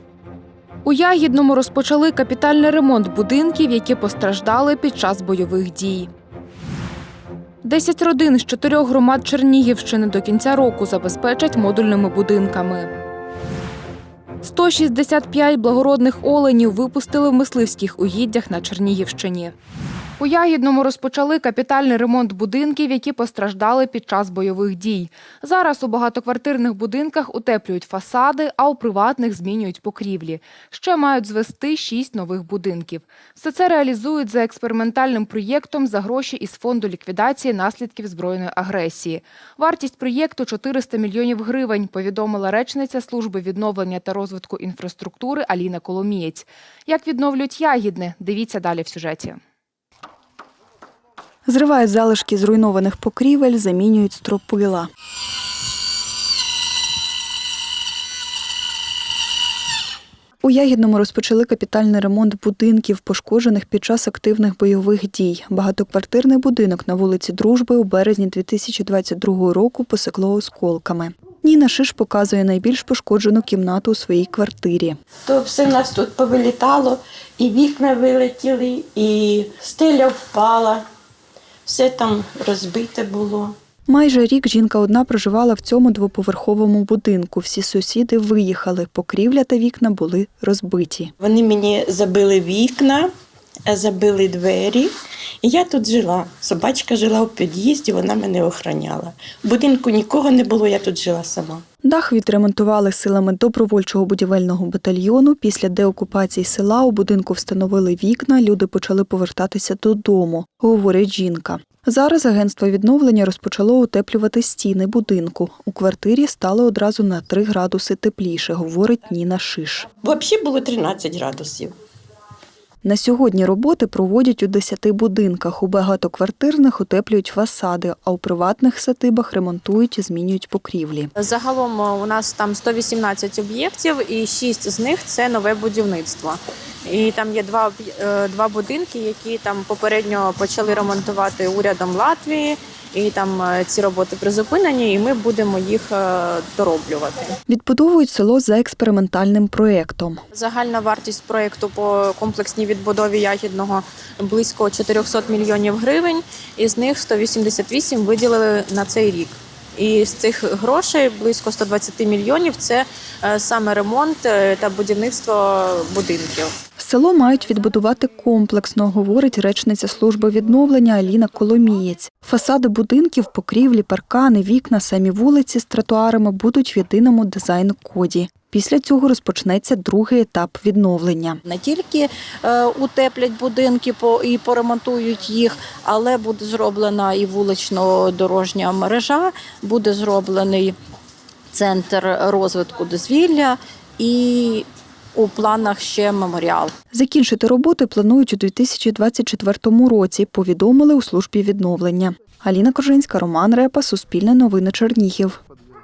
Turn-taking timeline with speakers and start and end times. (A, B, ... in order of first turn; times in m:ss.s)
0:00.8-0:06.1 A
0:07.6-0:12.9 A
0:14.4-0:19.5 A
0:20.2-0:49.4 A
0:51.5-0:54.9 B
1:00.4-1:15.0 B
1:15.2-1:20.8 C
1:21.6-1:23.5 C
1:23.9-1:31.1 B
1:31.2-1:33.1 C
1:33.7-1:34.9 C
1:35.4-1:41.6 C
1:41.8-1:59.9 B
2:00.0-2:01.7 C
2:02.8-2:11.1 B
2:11.2-2:27.3 D
2:27.5-2:30.2 B
2:30.4-2:46.4 D
2:46.8-3:01.4 B
3:01.4-3:10.8 E
3:11.5-3:16.7 E
3:16.9-3:25.4 B